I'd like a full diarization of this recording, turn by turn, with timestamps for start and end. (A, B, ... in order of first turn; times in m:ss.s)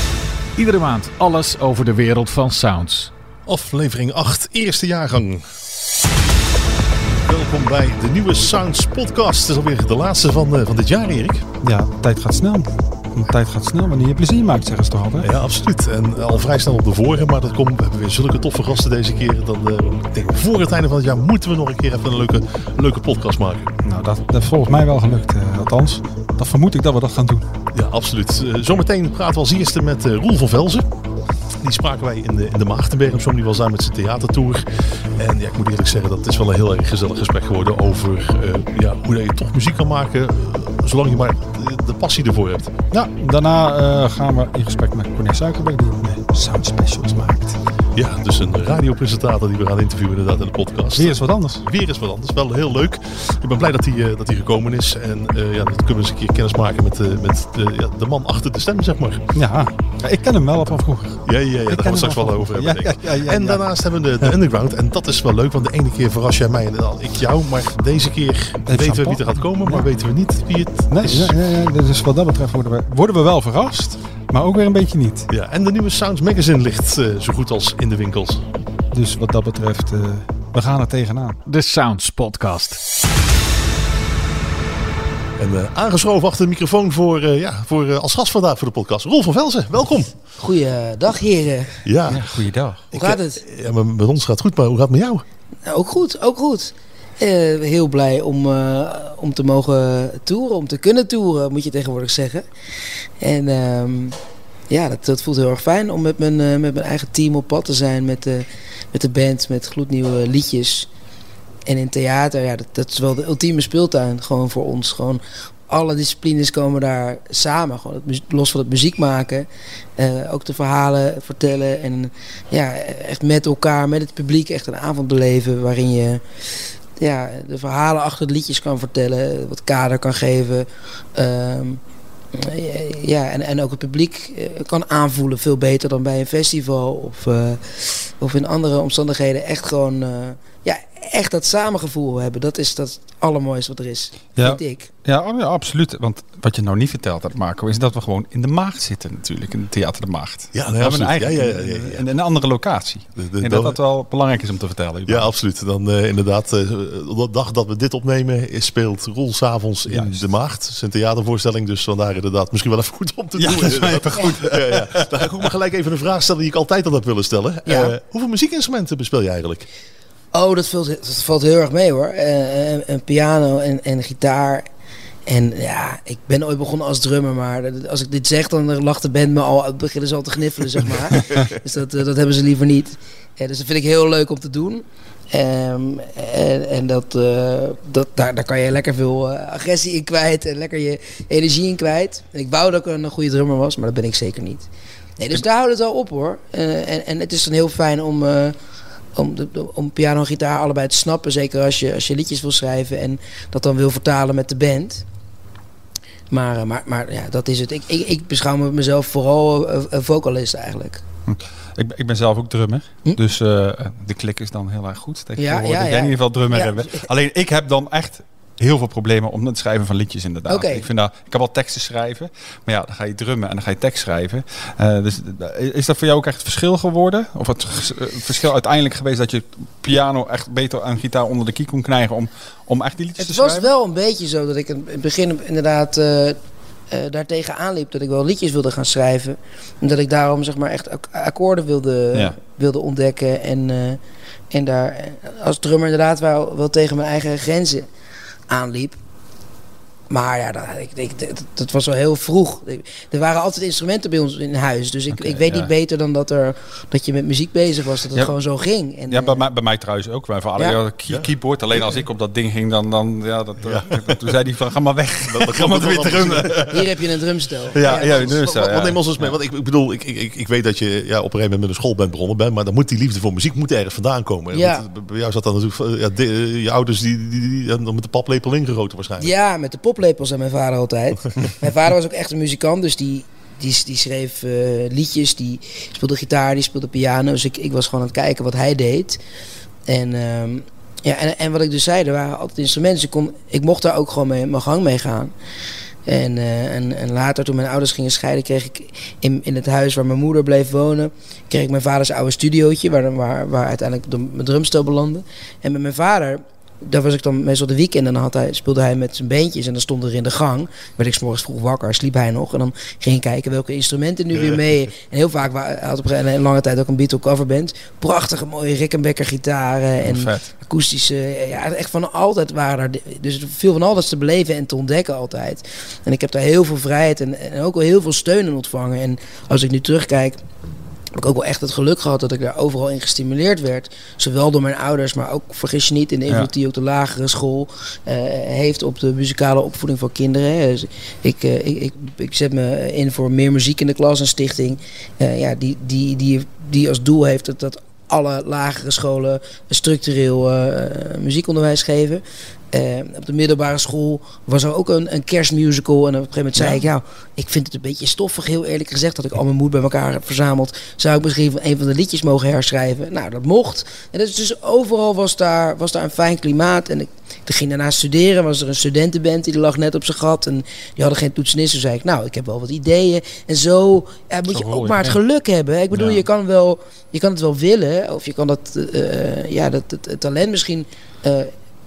0:00.6-0:03.1 A
0:03.5-0:05.5 B
0:07.3-0:11.5 B
0:11.6-0:15.3 C
0:15.2-0:23.8 B
0:23.8-0:27.5 C
0:27.7-0:30.9 B
0:31.6-0:42.8 B
0:42.9-0:47.6 C
0:48.0-0:59.3 B
0:51.0-0:51.6 C
0:59.4-1:03.6 C
1:01.3-1:11.4 B
1:08.7-1:09.9 C
1:10.9-1:15.3 C
1:15.3-1:18.4 B
1:18.9-1:21.4 C
1:21.5-1:22.8 A
1:25.4-1:30.2 B
1:30.4-1:31.8 D
1:31.8-1:32.3 B
1:32.1-1:32.8 C
1:32.9-1:35.2 B
1:33.0-1:33.4 D
1:35.7-1:42.5 D
1:43.2-1:44.2 D
1:44.7-1:50.9 D
1:51.7-1:59.5 D
2:00.0-2:06.2 D
2:07.0-2:11.8 D
2:12.3-2:24.9 D
2:24.4-2:35.3 C
2:30.5-2:32.1 B
2:33.2-2:33.8 B
2:35.1-2:49.7 B
2:39.9-2:40.2 C
2:43.4-2:45.3 C
2:47.7-2:47.9 D
2:50.3-2:54.7 D
2:55.3-3:14.7 D
3:15.2-3:18.6 D
3:19.2-3:25.0 D
3:26.3-3:31.0 D
3:31.3-3:53.7 C
3:35.4-3:37.0 D
3:40.5-3:40.9 D
3:53.2-3:56.4 D
3:56.9-4:04.0 D
4:04.5-4:07.9 D
4:08.5-4:09.0 D
4:10.1-4:19.4 D
4:15.2-4:15.7 C
4:19.1-4:26.9 C
4:23.6-4:24.2 B
4:25.3-4:26.8 B
4:26.7-4:28.4 D
4:27.8-4:29.4 C
4:27.8-4:39.3 B
4:34.5-4:34.8 D
4:39.2-4:49.2 D
4:49.9-4:55.3 D
4:56.1-5:30.4 D
5:20.0-5:20.5 C
5:31.2-6:21.5 D
6:14.5-6:15.2 C
6:15.9-6:16.2 C